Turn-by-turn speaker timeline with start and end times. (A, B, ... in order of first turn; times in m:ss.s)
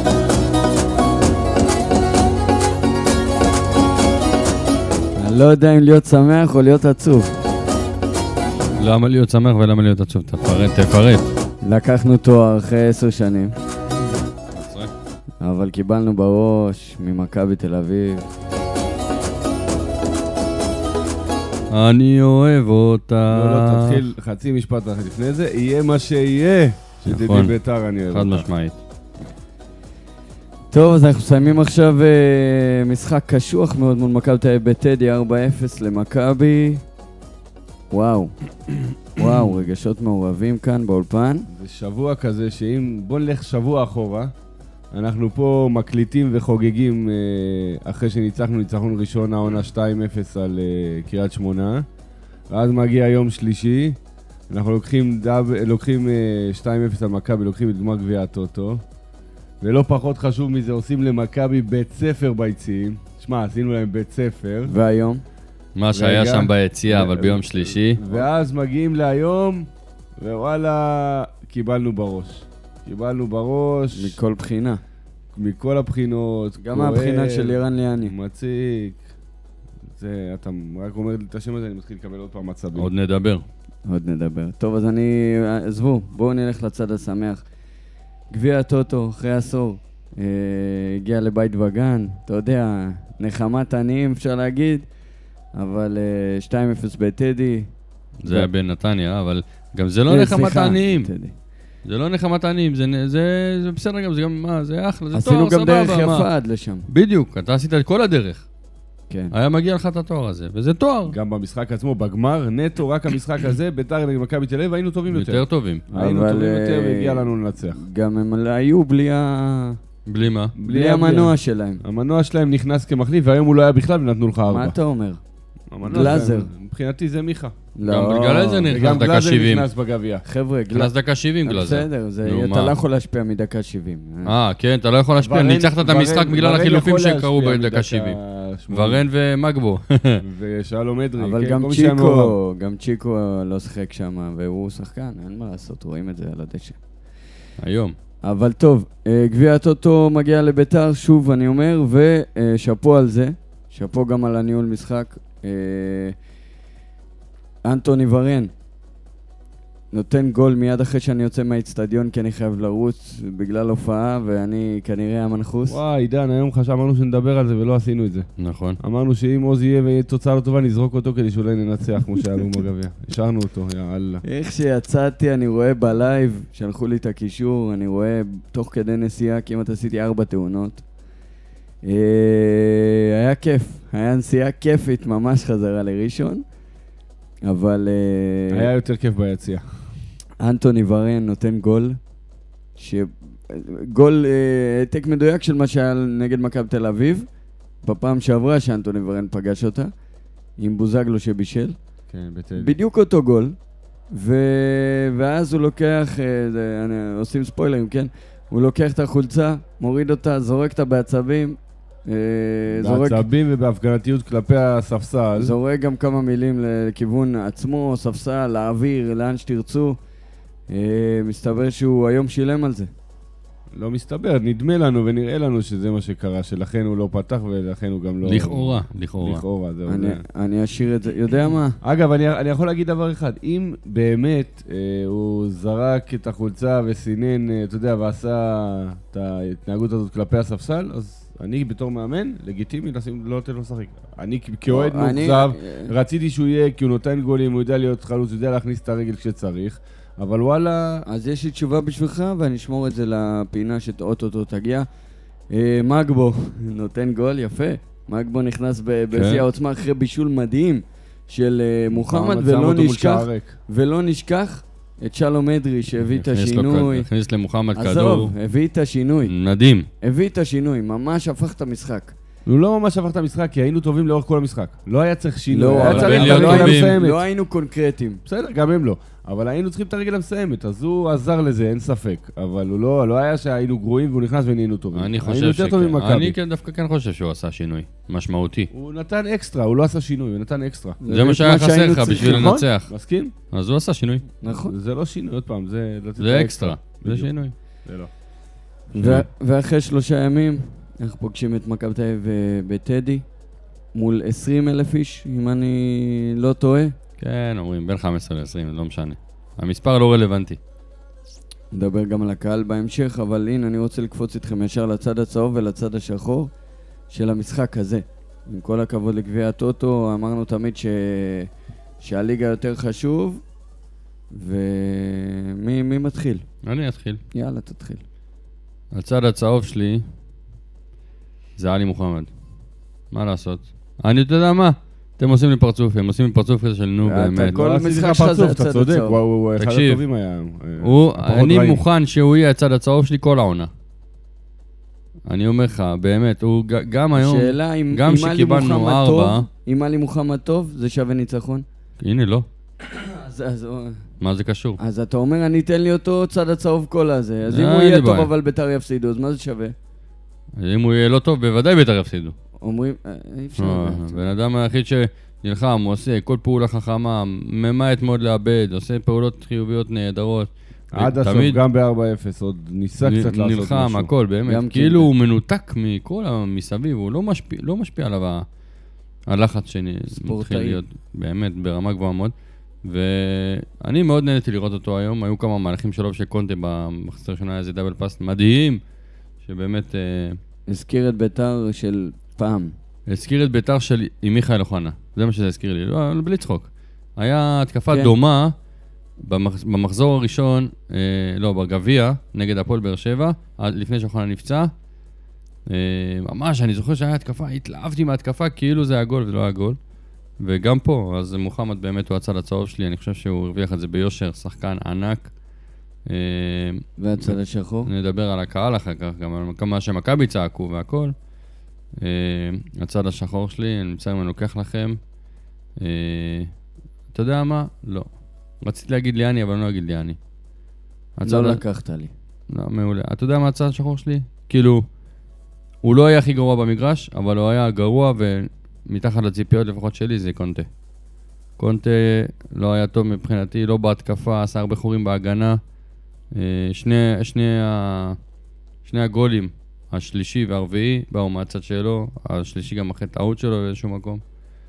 0:05.2-0:07.4 A
0:08.8-0:11.3 B
0:11.6-0:13.5 A
0:14.5-0:14.9 B
0:15.4-0:18.3 A
0:21.7-0:24.0 B
0:23.3-0:28.5 C
0:27.1-0:27.5 B
0:28.1-0:28.8 B
0:30.7-0:36.8 A
0:37.9-0:38.3 A
0:39.2-0:41.5 A
0:41.5-0:44.3 C
0:44.9-0:51.9 C
0:52.5-0:54.0 C
0:54.5-0:58.8 C
0:59.6-1:04.7 C
1:04.7-1:05.2 A
1:05.8-1:08.0 B
1:05.9-1:09.7 C
1:10.2-1:14.2 C
1:13.9-1:14.8 A
1:15.4-1:19.0 C
1:16.6-1:18.1 A
1:19.9-1:22.9 C
1:22.8-1:23.4 B
1:23.9-1:27.4 A
1:28.3-1:34.9 A
1:35.6-1:37.7 A
1:38.2-1:41.1 B
1:40.1-1:41.3 A
1:41.8-1:46.3 B
1:45.1-1:46.9 A
1:46.9-1:48.4 B
1:49.3-1:51.2 B
1:51.1-1:57.8 C
1:55.1-1:55.8 B
1:55.9-1:59.8 A
2:00.1-2:00.6 B
2:00.6-2:04.8 C
2:00.7-2:01.8 A
2:04.5-2:05.2 A
2:05.7-2:07.6 C
2:05.8-2:06.5 A
2:05.9-2:06.2 B
2:07.8-2:08.7 A
2:07.8-2:09.7 B
2:08.7-2:10.2 C
2:10.2-2:10.9 A
2:10.7-2:12.8 B
2:11.4-2:14.3 A
2:14.2-2:18.2 B
2:15.2-2:19.0 C
2:18.7-2:20.2 B
2:20.2-2:22.4 C
2:21.2-2:26.8 A
2:27.6-2:28.0 B
2:28.2-2:36.2 A
2:37.6-2:38.5 A
2:39.9-2:45.8 A
2:45.7-2:48.3 C
2:48.4-2:48.8 B
2:48.8-2:54.2 C
2:54.2-3:00.8 A
3:01.8-3:06.4 A
3:07.4-3:08.7 A
3:08.5-3:09.7 C
3:10.4-3:12.0 A
3:12.8-3:17.3 A
3:17.8-3:19.9 A
3:20.6-3:21.8 A
3:22.1-3:22.8 C
3:22.6-3:23.6 A
3:24.1-3:33.2 A
3:32.8-3:35.5 C
3:35.4-3:40.0 A
3:40.7-3:42.9 A
3:43.7-3:50.2 C
3:48.2-3:49.4 B
3:49.9-3:51.8 A
3:51.8-4:11.1 C
4:04.7-4:05.9 A
4:11.1-4:14.9 A
4:15.5-4:27.1 A
4:19.1-4:19.4 B
4:21.9-4:23.6 C
4:26.1-4:28.3 B
4:27.8-4:29.3 A
4:29.2-4:29.9 B
4:30.0-4:32.1 A
4:32.5-4:37.2 C
4:35.5-4:38.2 A
4:35.7-4:37.0 B
4:38.3-4:46.4 C
4:44.9-4:48.7 B
4:48.7-4:51.0 C
4:51.0-4:52.5 A
4:51.1-4:52.9 B
4:52.1-4:53.3 C
4:53.5-4:54.2 B
4:54.4-4:54.7 A
4:54.5-4:57.3 C
4:56.2-4:57.5 B
4:57.8-4:58.1 C
4:58.9-5:03.2 A
4:59.0-4:59.3 B
5:03.9-5:07.0 A
5:07.2-5:10.6 B
5:11.7-5:16.5 A
5:17.1-5:21.5 A
5:22.0-5:23.4 A
5:24.3-5:26.4 A
5:26.6-5:27.2 B
5:27.3-5:28.0 A
5:28.9-5:30.0 B
5:31.6-5:32.3 B
5:33.1-5:37.6 B
5:37.1-5:39.2 A
5:37.3-5:41.8 C
5:39.6-5:40.0 B
5:40.8-5:43.7 B
5:45.3-5:49.5 B
5:47.2-5:51.6 A
5:52.0-5:52.5 B
5:52.8-5:54.0 A
5:54.2-5:54.8 B
5:54.8-5:59.8 A
5:57.5-5:58.3 B
6:00.6-6:02.3 B
6:02.6-6:04.2 A
6:03.6-6:11.6 B
6:10.9-6:14.1 C
6:13.0-6:18.4 B
6:14.5-6:15.1 A
6:19.3-6:22.3 B
6:20.2-6:20.8 A
6:22.8-6:28.8 B
6:29.4-6:30.4 B
6:30.7-6:32.8 A
6:33.1-6:38.5 B
6:37.9-6:38.2 A
6:39.2-6:44.7 B
6:45.7-6:49.8 B
6:50.4-6:55.3 B
6:56.1-6:57.4 B
6:57.0-6:57.9 A
6:57.9-7:01.1 B
7:02.0-7:05.0 B
7:05.8-7:06.5 B
7:07.1-7:08.1 B
7:08.6-7:10.2 B
7:11.2-7:11.6 B
7:11.2-7:12.1 A
7:12.5-7:14.8 B
7:15.8-7:20.7 B
7:21.6-7:25.6 B
7:26.3-7:28.2 B
7:28.8-7:34.2 B